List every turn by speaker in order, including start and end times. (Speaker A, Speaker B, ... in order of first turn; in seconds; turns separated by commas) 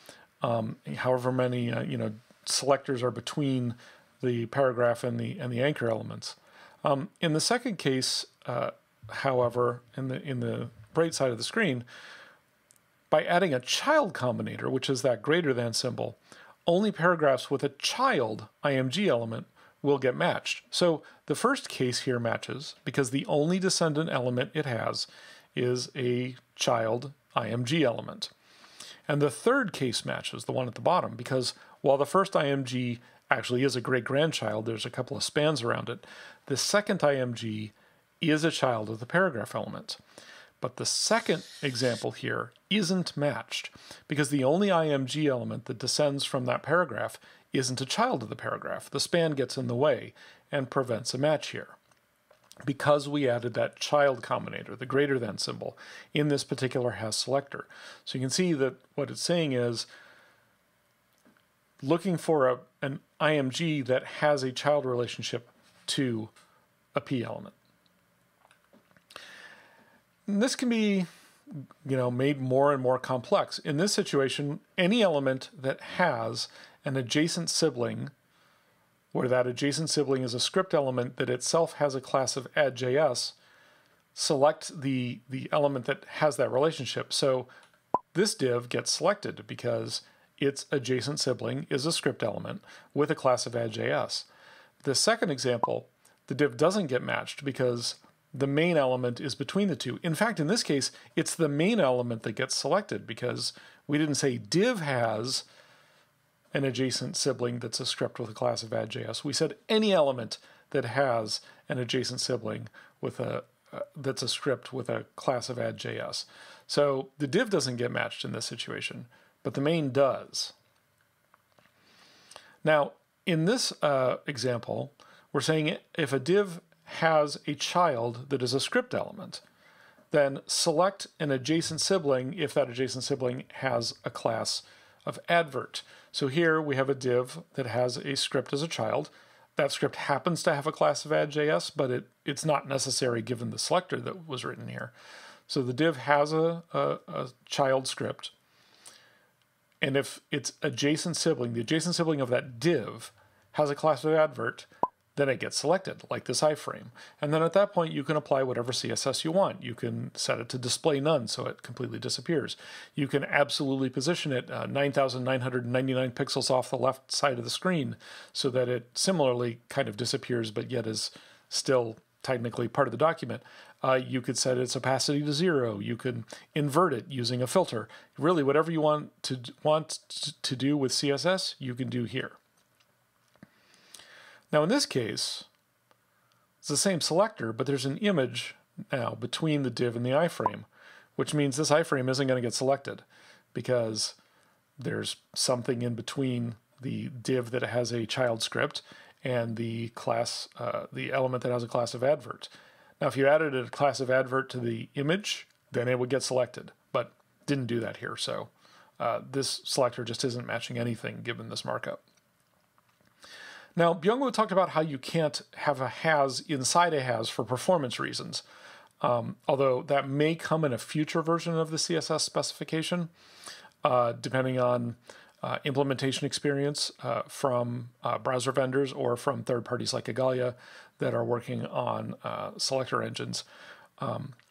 Speaker A: 0.4-11.8, Speaker A: 13.1-28.3, Speaker A: 29.1-40.0, Speaker A: 40.6-51.8, Speaker A: 52.6-59.9, Speaker A: 61.8-66.3, Speaker A: 66.9-67.5, Speaker A: 70.2-78.1, Speaker A: 79.1-83.3, Speaker A: 84.1-87.5, Speaker A: 88.1-94.3, Speaker A: 94.8-105.5, Speaker A: 106.5-120.5, Speaker A: 122.6-129.4, Speaker A: 130.1-144.9, Speaker A: 145.5-148.3, Speaker A: 149.8-182.4, Speaker A: 184.5-185.5, Speaker A: 186.6-194.2, Speaker A: 194.8-212.0, Speaker A: 213.8-218.4, Speaker A: 219.0-223.1, Speaker A: 223.8-233.4, Speaker A: 234.0-234.3